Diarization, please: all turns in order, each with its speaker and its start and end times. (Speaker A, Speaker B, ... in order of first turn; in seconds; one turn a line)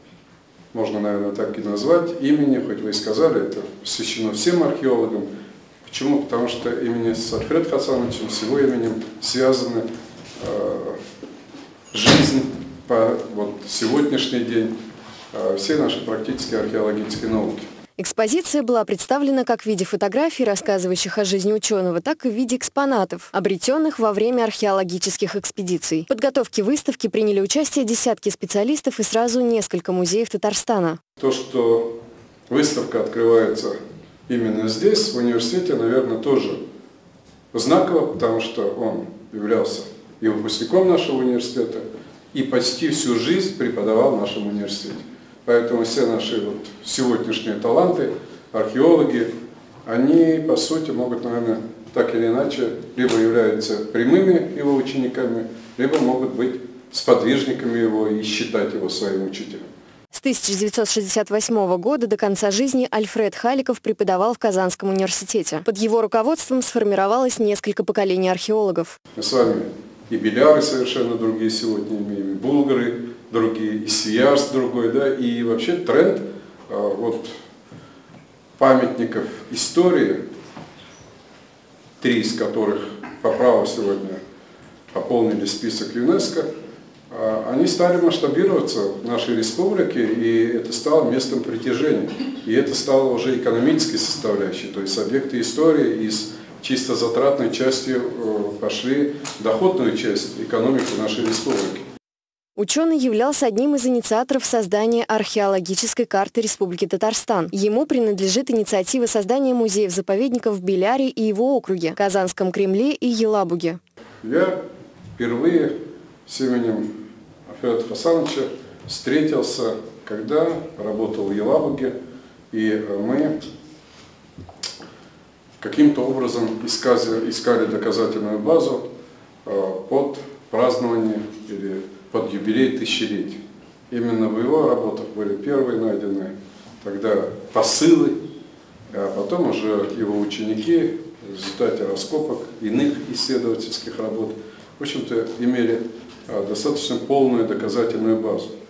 Speaker A: 0.7-5.3
Speaker A: 5.8-9.8
Speaker A: 10.4-11.0
Speaker A: 11.9-14.7
Speaker A: 15.3-17.6
Speaker B: 18.0-31.0
Speaker A: 31.2-31.9
Speaker A: 32.5-33.8
Speaker A: 34.3-36.6
Speaker A: 37.5-49.3
Speaker A: 49.9-59.7
Speaker B: 60.1-69.0
Speaker A: 69.2-77.4
Speaker A: 78.6-80.2
Speaker A: 82.0-84.2
Speaker A: 84.9-86.5
Speaker A: 87.1-101.8
Speaker B: 102.6-113.8
Speaker A: 114.2-114.6
Speaker A: 115.2-115.7
Speaker A: 116.2-116.9
Speaker A: 117.5-121.9
Speaker A: 122.5-123.3
Speaker A: 125.6-128.8
Speaker A: 129.4-138.2
Speaker A: 138.9-148.5